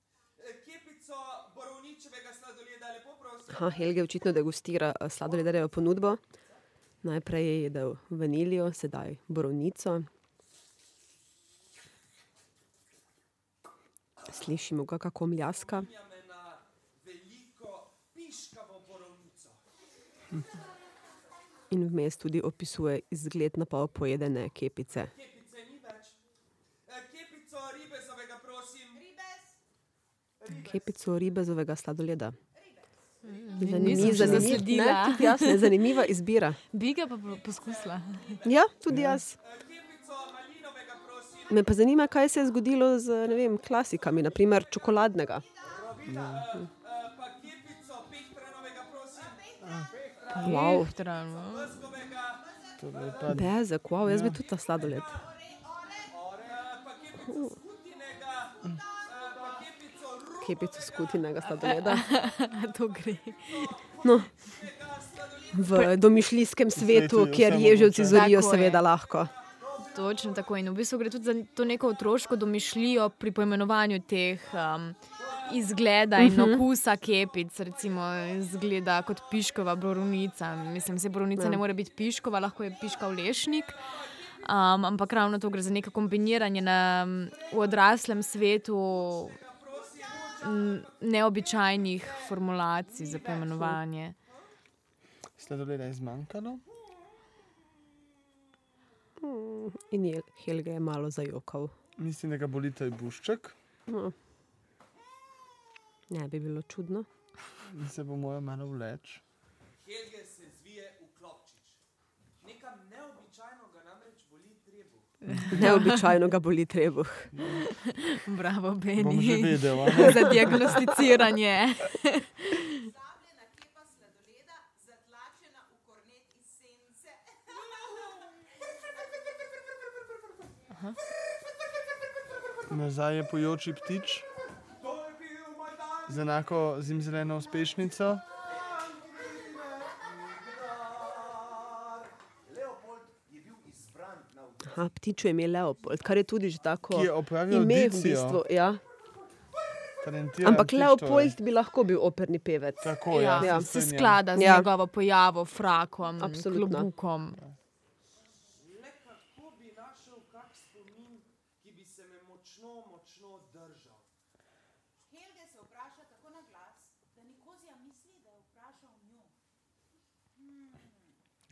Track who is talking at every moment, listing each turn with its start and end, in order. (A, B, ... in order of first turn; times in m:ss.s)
0:00.4-0:03.9 A
0:03.5-0:06.2 B
0:07.0-0:10.1 B
0:14.3-0:15.9 B
0:15.5-0:19.6 A
0:21.7-0:25.1 B
0:25.1-0:26.2 A
0:26.9-0:29.0 A
0:28.9-0:29.6 C
0:30.5-0:30.9 D
0:30.6-0:32.4 B
0:32.5-0:33.7 C
0:33.2-0:35.8 E
0:33.6-0:36.6 B
0:33.7-0:34.7 F
0:36.7-0:38.4 E
0:37.2-0:38.6 A
0:38.4-0:39.4 B
0:38.9-0:39.2 F
0:39.4-0:41.7 A
0:41.5-0:45.4 B
0:45.0-0:45.9 C
0:45.6-0:46.6 D
0:46.0-0:49.4 A
0:46.1-0:46.5 F
0:49.2-0:49.9 C
0:49.6-0:49.9 F
0:49.9-0:50.8 D
0:50.4-0:51.8 E
0:50.4-0:50.9 B
0:50.4-0:52.4 A
0:52.3-0:53.4 C
0:52.8-0:54.4 F
0:53.3-0:55.2 B
0:54.8-0:56.2 C
0:56.1-0:56.5 D
0:56.4-1:02.2 A
0:58.6-0:59.2 C
0:59.3-0:59.6 D
1:00.4-1:02.1 B
1:01.7-1:03.8 E
1:04.0-1:04.3 B
1:04.2-1:06.0 A
1:05.5-1:09.3 B
1:06.8-1:08.4 F
1:08.1-1:08.9 E
1:09.6-1:10.1 D
1:09.9-1:29.4 E
1:15.2-1:15.7 A
1:16.2-1:16.6 B
1:21.4-1:21.6 B
1:23.1-1:24.7 A
1:27.3-1:28.3 A
1:28.8-1:33.7 A
1:30.4-1:34.2 E
1:35.4-1:36.6 F
1:39.2-1:41.7 B
1:42.0-1:43.6 F
1:43.9-1:44.2 B
1:46.1-1:47.1 B
1:47.6-1:49.2 F
1:49.8-1:51.8 A
1:52.4-1:55.2 A
1:55.2-1:56.1 E
1:55.5-1:57.4 B
1:57.3-1:57.7 F
1:57.5-2:02.8 E
1:59.0-2:00.8 F
2:02.6-2:09.0 C
2:10.7-2:11.0 E
2:12.7-2:14.3 F
2:14.8-2:16.4 D
2:16.1-2:18.2 F
2:18.3-2:24.9 D
2:24.7-2:28.8 B
2:26.9-2:28.4 F
2:30.0-2:31.4 F
2:30.4-2:33.7 B
2:32.8-2:34.2 F
2:33.1-2:37.4 E
2:34.4-2:34.7 B
2:36.2-2:36.9 B
2:38.5-2:44.1 A
2:45.1-2:49.3 C
2:50.4-2:51.2 C